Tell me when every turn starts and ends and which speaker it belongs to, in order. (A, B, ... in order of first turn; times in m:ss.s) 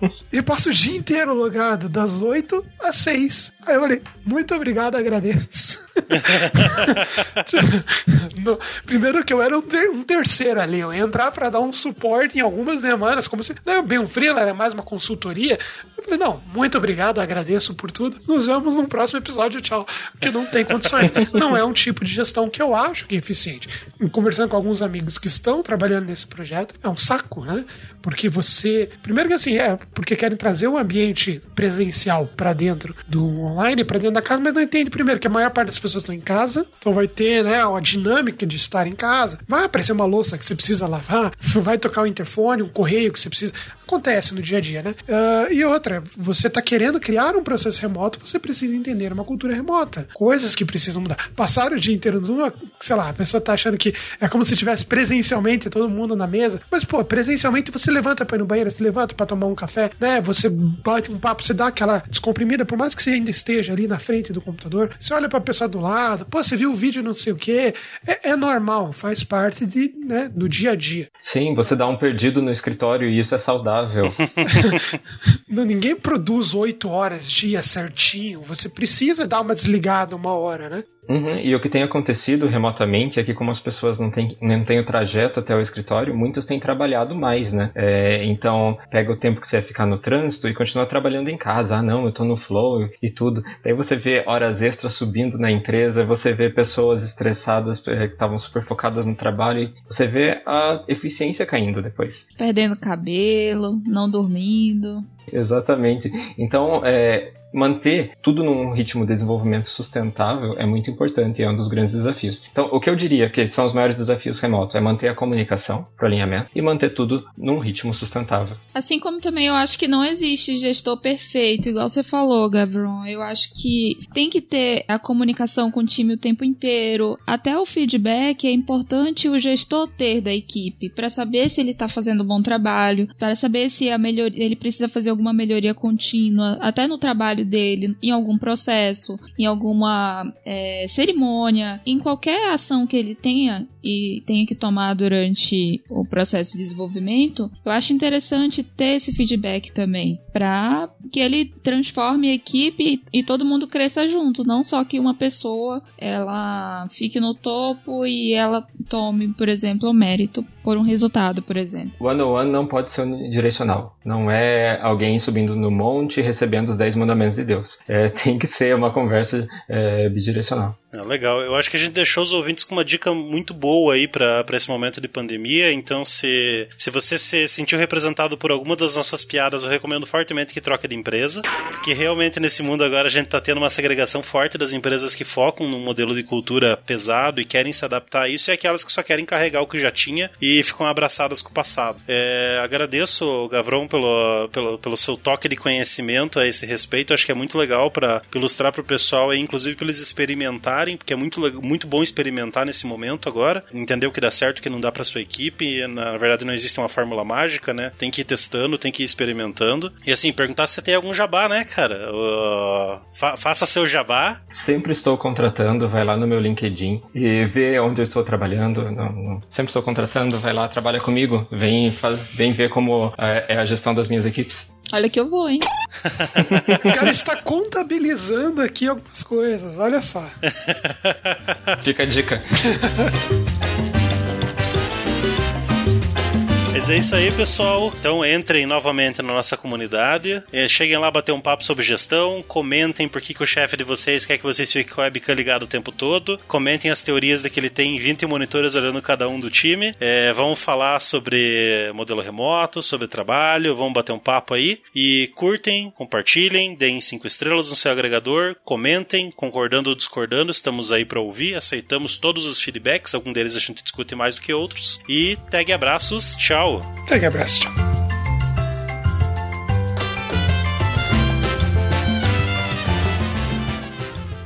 0:00.3-1:11.1 A
1:11.2-1:14.2 B
1:14.4-1:14.8 A
1:15.5-1:20.8 A
1:21.1-1:42.2 B
1:42.4-1:45.1 C
1:45.3-1:58.6 B
1:58.7-2:41.9 C
2:42.0-2:50.8 B
2:50.9-3:34.4 D
3:34.5-3:44.7 B
3:44.9-3:45.7 C
3:46.4-3:46.9 B
3:46.8-3:50.4 A
3:50.6-3:51.7 D
3:51.8-3:52.4 B
3:52.7-3:53.1 A
3:56.7-4:26.9 D
4:27.1-4:27.7 A